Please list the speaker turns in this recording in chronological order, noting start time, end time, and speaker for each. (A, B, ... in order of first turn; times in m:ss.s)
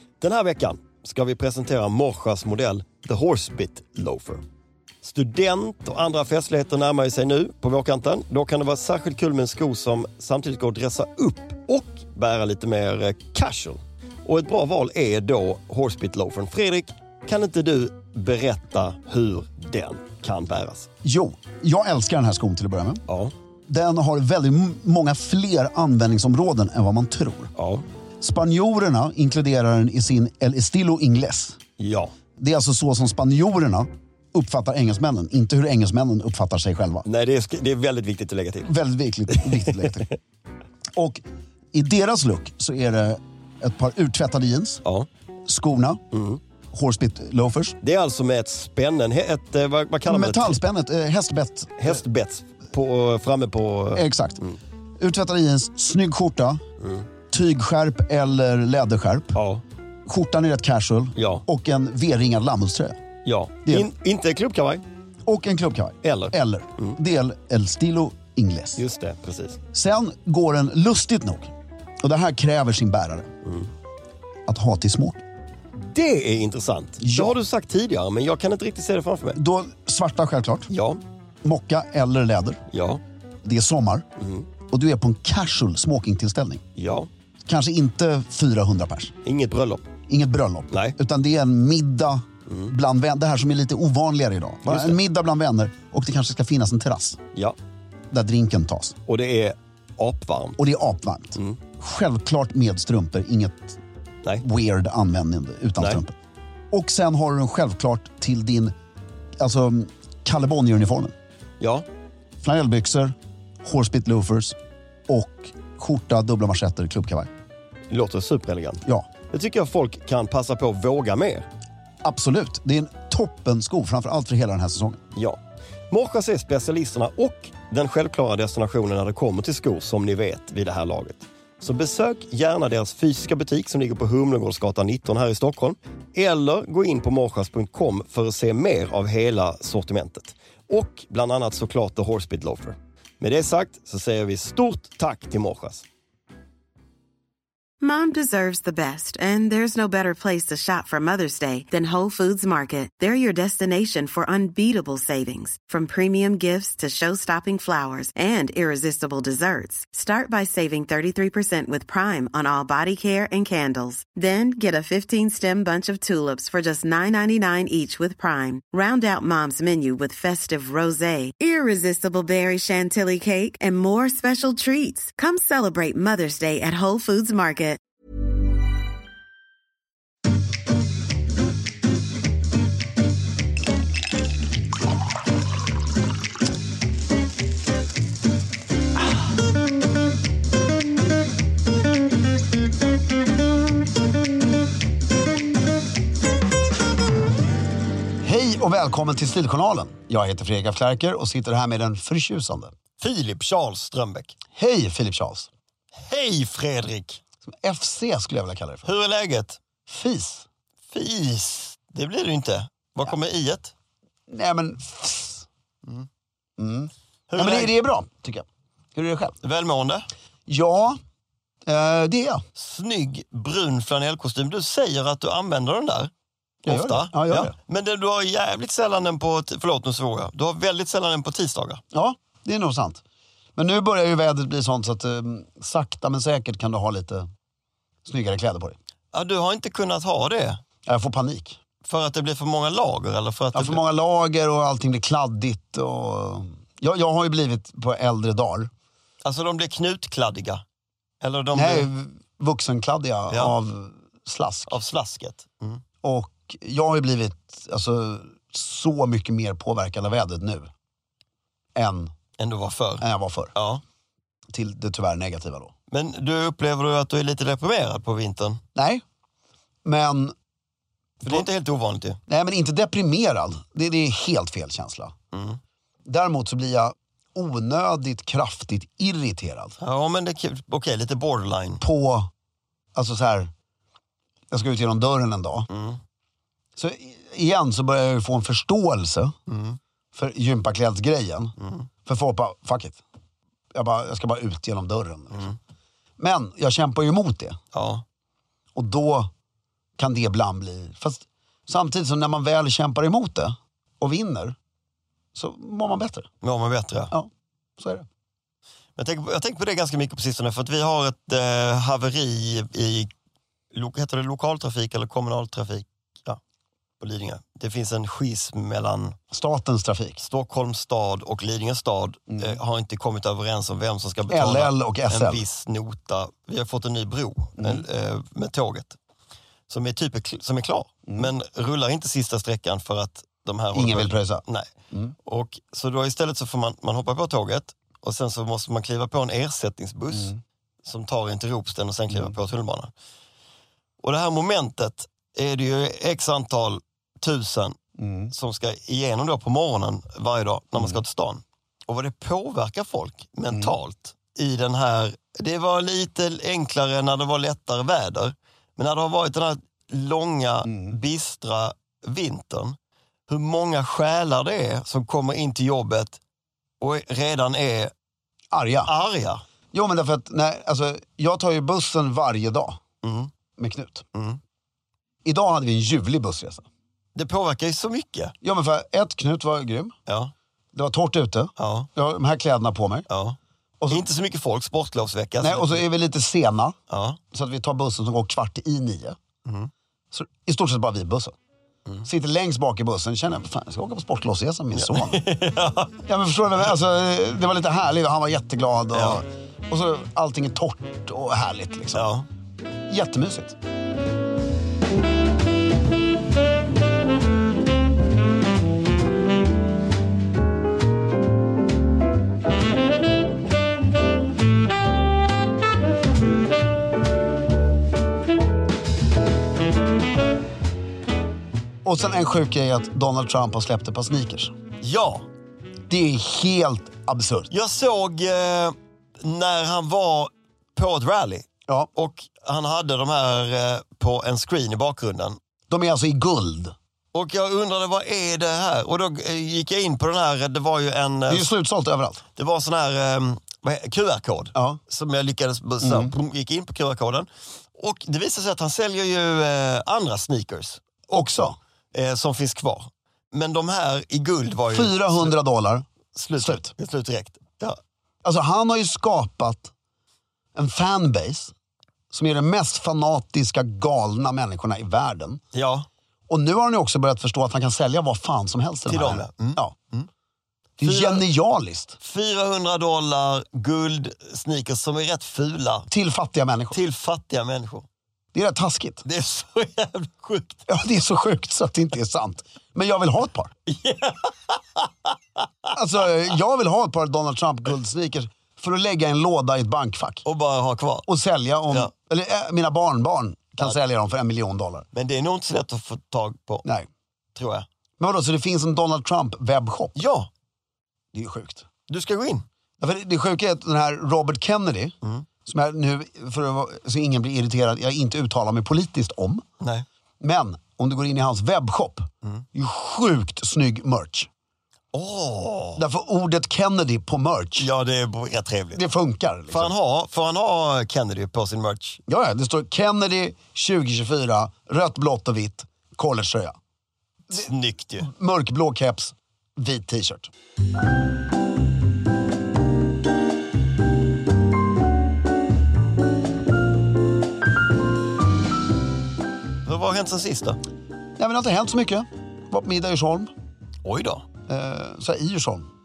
0:00.2-0:04.4 A
0:05.0-0:20.9 A
0:21.0-0:23.0 B
0:23.1-0:23.3 A
0:23.7-0:27.5 B
0:27.6-0:27.8 A
0:28.2-0:31.6 B
0:31.8-0:32.1 A
0:32.4-0:37.0 B
0:37.0-0:38.7 A
0:38.6-0:40.1 B
0:39.3-0:40.0 A
0:40.9-0:44.8 B
0:45.5-0:46.0 B
0:46.1-0:46.4 A
0:46.7-0:47.8 B
0:47.8-0:50.6 A
0:50.0-0:52.0 B
0:51.8-0:54.6 A
0:53.9-0:54.4 B
0:55.0-0:56.6 B
0:56.8-0:57.0 A
0:57.3-0:59.4 B
0:59.3-0:59.6 A
1:00.0-1:03.0 B
1:01.2-1:01.4 A
1:03.2-1:04.8 A
1:05.3-1:08.8 B
1:06.0-1:07.0 A
1:08.8-1:09.6 A
1:09.7-1:13.3 B
1:14.5-1:15.2 B
1:15.8-1:19.4 A
1:17.0-1:17.4 B
1:19.4-1:20.7 B
1:20.7-1:21.0 A
1:21.4-1:22.6 B
1:22.7-1:23.0 A
1:23.4-1:24.0 B
1:24.2-1:24.5 A
1:24.7-1:26.6 B
1:26.7-1:27.1 A
1:27.5-1:29.1 B
1:29.2-1:29.9 A
1:30.1-1:37.2 B
1:30.7-1:31.0 A
1:34.7-1:35.0 A
1:38.1-1:39.0 B
1:39.1-1:40.6 A
1:40.6-1:43.8 B
1:44.4-1:46.1 B
1:45.8-1:46.0 A
1:46.7-1:48.7 B
1:49.4-1:51.1 B
1:51.6-1:51.8 A
1:52.4-1:54.6 B
1:55.1-1:57.3 B
1:57.9-2:01.4 A
2:02.0-2:05.0 B
2:05.1-2:25.8 A
2:27.8-2:57.8 C
3:18.2-3:22.7 B
3:23.0-3:24.3 A
3:24.5-3:25.5 B
3:25.9-3:27.2 A
3:27.4-3:28.9 B
3:28.8-3:29.6 A
3:29.9-3:30.4 B
3:30.9-3:33.7 A
3:34.3-3:35.5 B
3:36.6-3:39.4 B
3:37.3-3:37.7 A
3:39.4-3:40.1 A
3:40.5-3:41.0 B
3:41.6-3:42.4 B
3:42.6-3:46.1 A
3:46.6-3:47.5 B
3:46.6-3:51.8 A
3:51.9-3:53.0 B
3:53.6-3:57.3 B
3:58.0-3:58.8 B
3:59.1-4:00.6 A
4:00.8-4:01.6 B
4:01.8-4:03.8 A
4:03.5-4:08.7 B
4:09.2-4:10.6 A
4:11.2-4:11.9 A
4:11.5-4:14.7 B
4:14.7-4:15.8 A
4:16.0-4:20.7 B
4:21.7-4:22.1 B
4:22.4-4:23.0 A
4:23.0-4:23.5 B
4:23.5-4:23.8 A
4:24.5-4:25.7 B
4:25.9-4:28.6 A
4:28.7-4:29.0 B
4:29.8-4:30.3 B
4:31.2-4:32.2 A
4:32.3-4:35.1 B
4:35.3-4:35.6 A
4:36.0-4:39.8 B
4:39.8-4:41.8 A
4:41.8-4:42.3 B
4:42.9-4:43.5 B
4:44.5-4:45.7 B
4:45.7-4:46.0 A
4:46.8-4:49.3 B
4:49.5-4:49.8 A
4:50.1-4:53.0 B
4:51.6-4:51.9 A
4:53.7-4:55.5 B
4:56.2-4:57.6 B
4:57.7-4:58.0 A
4:58.7-4:59.3 B
5:00.0-5:04.6 B
5:05.3-5:06.3 B
5:06.4-5:07.1 A
5:07.1-5:08.1 B
5:09.0-5:13.1 A
5:13.7-5:16.4 A
5:17.0-5:19.2 A
5:19.3-5:20.2 B
5:20.2-5:29.0 A
5:22.3-5:22.6 B
5:24.3-5:25.4 B
5:27.6-5:27.8 B
5:29.7-5:34.7 A
5:31.0-5:31.3 B
5:33.7-5:35.1 B
5:35.2-5:42.9 A
5:40.1-5:40.4 B
5:44.0-5:47.8 A
5:48.0-5:48.3 B
5:48.3-6:02.8 A
5:53.5-5:53.8 B
6:00.6-6:01.0 B
6:03.3-6:06.2 A
6:06.8-6:07.9 A
6:08.5-6:08.9 B
6:08.8-6:09.4 A
6:09.7-6:12.8 B
6:13.0-6:13.3 A
6:13.6-6:14.0 B
6:14.1-6:14.4 A
6:15.2-6:16.6 B
6:17.1-6:18.3 A
6:18.4-6:19.9 B
6:20.1-6:20.3 A
6:20.7-6:23.1 B
6:21.6-6:21.9 A
6:23.1-6:23.4 A
6:23.9-6:25.8 A
6:25.4-6:26.8 B
6:26.9-6:27.2 A
6:27.3-6:29.2 B
6:29.4-6:29.7 A
6:30.1-6:31.3 B
6:32.0-6:35.2 B
6:34.7-6:35.9 A
6:36.1-6:42.1 B
6:38.9-6:39.2 A
6:41.9-6:42.2 A
6:42.9-6:43.5 B
7:01.8-7:04.5 B
7:04.8-7:05.2 A
7:05.9-7:07.5 B
7:07.5-7:15.4 A
7:15.7-7:16.7 B
7:17.1-7:21.5 A
7:21.3-7:22.2 B
7:22.4-7:35.3 A
7:24.5-7:24.8 B
7:25.8-7:26.1 B
7:31.1-7:31.6 B
7:34.7-7:35.8 B
7:36.1-7:37.8 A
7:36.4-7:36.7 B
7:38.2-7:39.7 B
7:40.5-7:41.5 B
7:42.1-7:45.4 B
7:45.5-7:45.9 A
7:46.3-7:49.7 B
7:48.9-7:50.1 A
7:50.8-7:52.0 B
7:50.8-7:51.3 A
7:52.0-7:55.9 A
7:55.9-7:56.8 B
7:56.7-7:57.9 A
7:58.3-7:59.0 B
7:59.0-8:00.6 A
8:00.7-8:03.5 B
8:03.6-8:05.7 A
8:05.7-8:10.2 B
8:10.2-8:11.1 A
8:11.1-8:14.8 B
8:14.9-8:16.6 A
8:17.3-8:17.7 A
8:18.0-8:20.0 B
8:20.0-8:20.3 A
8:21.1-8:21.6 B
8:21.9-8:22.4 A
8:22.8-8:24.9 B
8:25.4-8:29.4 B
8:29.6-8:29.8 A
8:30.2-8:34.3 B
8:34.9-8:35.8 A
8:35.8-8:37.7 B
8:37.6-8:38.8 A
8:38.8-8:39.7 B
8:39.5-8:42.0 A
8:42.1-8:46.6 B
8:47.3-8:48.1 A
8:48.0-8:50.3 B
8:59.6-9:00.6 A
9:01.2-9:03.3 B
9:03.8-9:04.2 A
9:04.5-9:05.7 B